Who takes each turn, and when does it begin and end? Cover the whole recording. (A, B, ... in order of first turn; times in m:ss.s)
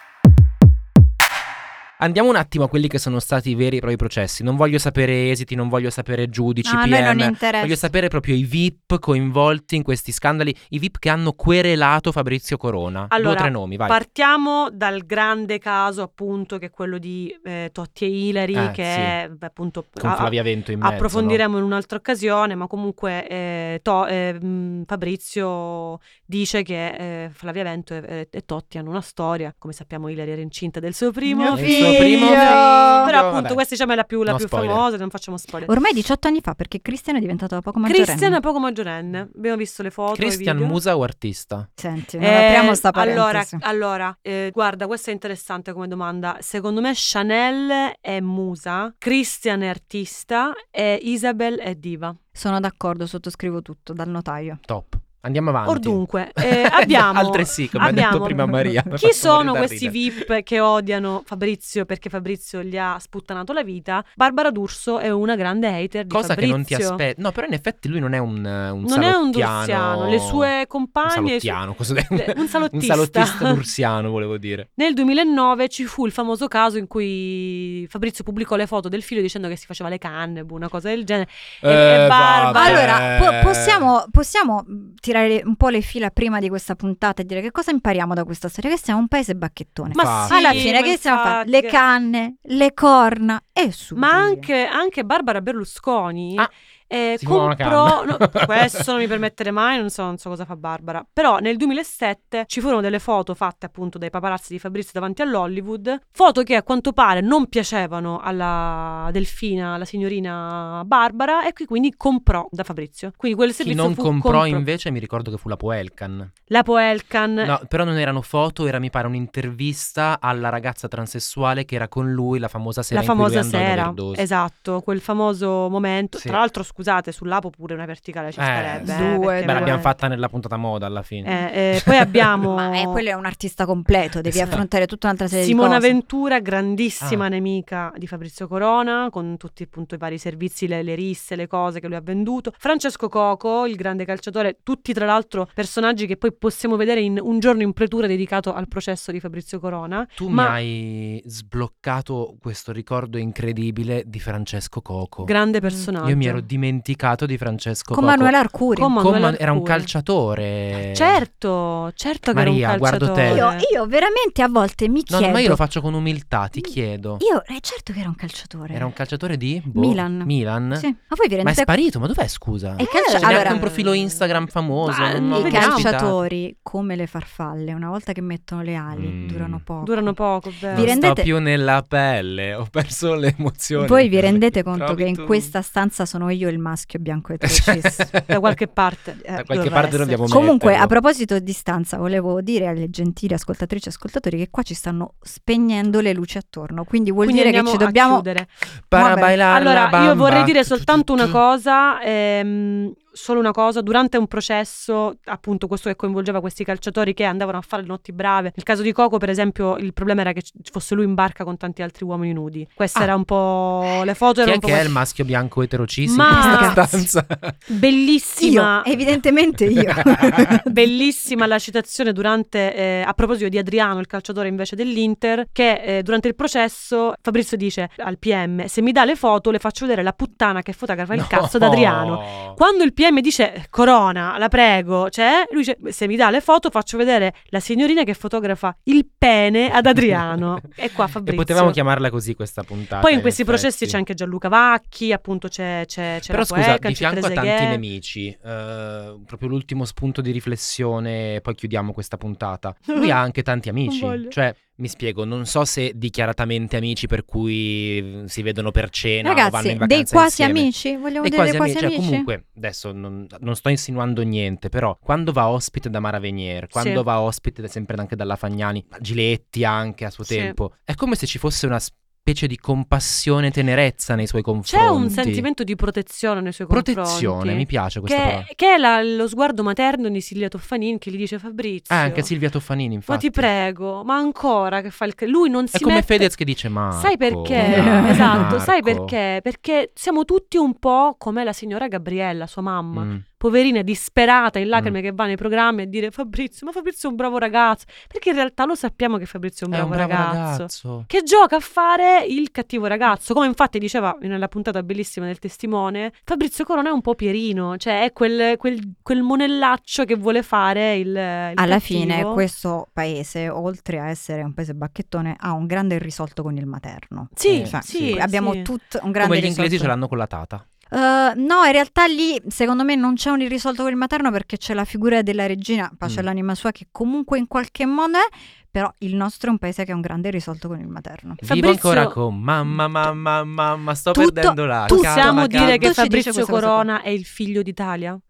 0:02.0-0:14.0 A
0:06.6-0:07.9 B
0:13.1-0:35.7 C
0:18.5-0:19.2 A
0:20.0-0:21.4 A
0:31.3-0:33.1 B
0:31.5-0:33.6 A
0:34.3-0:34.8 A
0:35.7-0:38.4 B
0:37.8-0:40.8 C
0:40.1-0:41.7 A
0:41.8-0:43.6 B
0:42.2-0:52.2 C
0:52.4-0:54.6 B
0:54.7-1:00.3 A
0:55.6-1:07.0 C
1:06.1-1:10.5 A
1:08.8-1:11.6 C
1:11.0-1:14.7 A
1:12.1-1:13.6 C
1:14.8-1:22.9 C
1:21.6-1:23.9 A
1:22.5-1:34.5 B
1:29.9-1:31.8 C
1:29.9-1:30.7 A
1:34.0-1:54.6 C
1:37.2-1:38.9 A
1:53.6-1:56.3 A
1:56.5-1:57.5 C
1:57.4-2:04.2 A
2:02.9-2:09.9 C
2:08.4-2:12.2 A
2:08.8-2:09.9 B
2:11.2-2:13.0 C
2:12.5-2:16.0 B
2:14.3-2:14.6 A
2:15.3-2:30.6 C
2:30.2-2:35.4 A
2:35.2-2:36.4 C
2:36.0-2:38.3 A
2:37.9-2:39.0 B
2:38.8-2:39.9 C
2:39.0-2:41.2 A
2:40.8-2:43.7 C
2:42.3-2:43.5 A
2:43.3-2:45.6 B
2:45.1-2:47.2 A
2:46.6-2:48.9 B
2:48.7-2:50.9 A
2:49.7-2:51.7 B
2:51.4-2:56.2 A
2:52.8-2:53.7 B
2:52.8-2:53.9 C
2:54.8-2:55.9 C
2:55.2-3:01.3 B
2:58.9-2:59.6 A
2:59.8-3:01.0 C
3:00.7-3:05.5 A
3:03.8-3:08.1 B
3:07.4-3:08.4 A
3:08.3-3:10.2 C
3:09.2-3:18.3 B
3:09.3-3:10.9 A
3:17.2-3:18.5 C
3:18.9-3:21.4 A
3:18.9-3:19.4 B
3:19.5-3:35.0 C
3:34.4-3:37.6 A
3:36.1-3:36.8 C
3:36.3-3:37.0 B
3:37.7-3:38.9 C
3:38.4-3:40.7 B
3:39.7-3:40.6 A
3:40.6-4:01.8 C
3:51.1-3:52.6 A
4:01.3-4:04.0 A
4:03.0-4:07.8 C
4:06.3-4:35.5 A
4:13.9-4:14.3 C
4:19.2-4:22.3 B
4:26.8-4:27.0 C
4:30.2-4:30.6 C
4:34.7-4:42.3 C
4:36.7-4:38.5 A
4:41.9-4:43.5 A
4:43.1-4:46.3 C
4:45.7-4:49.1 A
4:46.9-5:12.4 C
4:47.6-4:48.5 B
4:52.9-4:53.2 A
4:59.7-5:01.1 A
5:11.6-5:19.9 B
5:17.4-5:18.7 C
5:17.4-5:18.2 A
5:19.2-5:20.6 A
5:20.9-5:31.4 B
5:31.4-5:36.0 A
5:31.4-5:32.2 C
5:34.1-5:36.9 B
5:34.9-5:38.2 C